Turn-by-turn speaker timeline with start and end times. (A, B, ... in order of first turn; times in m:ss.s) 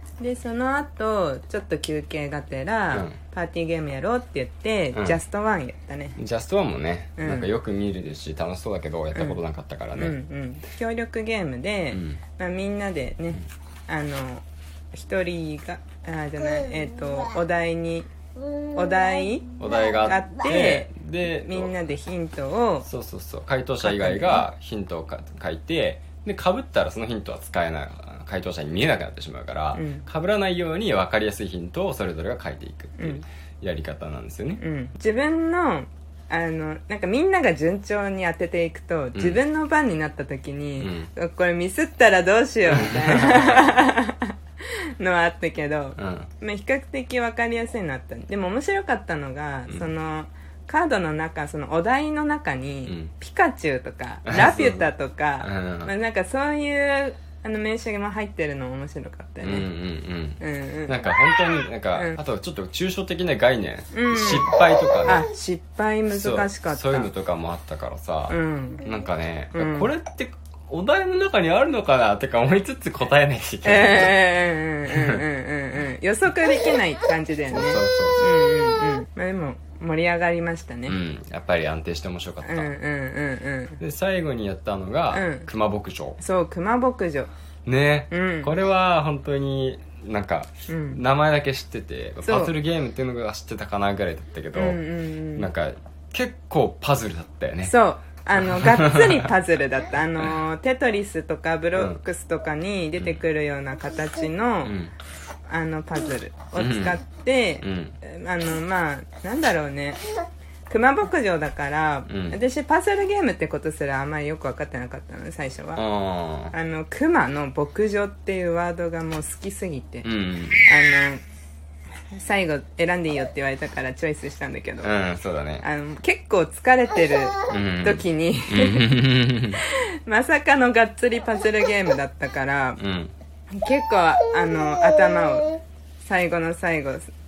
0:00.2-0:06.2 A
0:02.9-0:03.2 B
0:04.9-0:05.2 B
0:06.2-0:10.2 B
0:07.2-0:07.5 A
0:09.1-0:09.4 A
0:10.0-0:18.1 A
0:11.9-0:12.2 B
0:18.7-0:22.9 A
0:19.6-0:21.8 B
0:22.8-0:34.6 B
0:23.8-0:24.4 A
0:29.8-0:30.0 A
0:33.0-0:33.2 A
0:34.6-0:44.3 A
0:39.1-0:39.4 B
0:40.8-0:41.1 B
0:42.7-0:43.6 B
0:45.0-0:59.7 A
0:46.0-0:46.3 B
0:54.2-0:54.9 B
0:55.4-0:55.9 B
0:59.4-1:05.3 B
1:00.4-1:01.0 A
1:03.9-1:04.5 A
1:05.0-1:07.1 A
1:06.1-1:14.2 B
1:08.3-1:08.8 A
1:09.5-1:09.9 A
1:13.6-1:21.0 A
1:14.9-1:15.2 B
1:17.5-1:18.3 B
1:20.8-1:22.7 B
1:22.4-1:23.8 A
1:23.8-1:26.2 B
1:25.1-1:25.5 A
1:26.2-1:27.3 A
1:27.6-1:34.8 B
1:28.1-1:28.5 A
1:30.7-1:31.0 A
1:32.2-1:32.5 A
1:34.5-1:35.5 A
1:35.3-1:37.7 B
1:37.6-1:44.7 A
1:38.4-1:39.3 B
1:44.6-1:44.9 B
1:45.5-1:50.0 A
1:46.6-1:47.0 B
1:47.6-1:48.0 B
1:50.7-1:55.8 A
1:52.1-1:52.4 B
1:55.8-1:56.5 B
1:56.5-2:00.1 A
2:00.0-2:00.7 B
2:00.6-2:01.2 A
2:02.1-2:04.9 A
2:04.8-2:05.6 B
2:05.6-2:09.0 A
2:07.5-2:09.6 B
2:09.6-2:12.8 A
2:12.8-2:13.1 B
2:13.5-2:17.1 A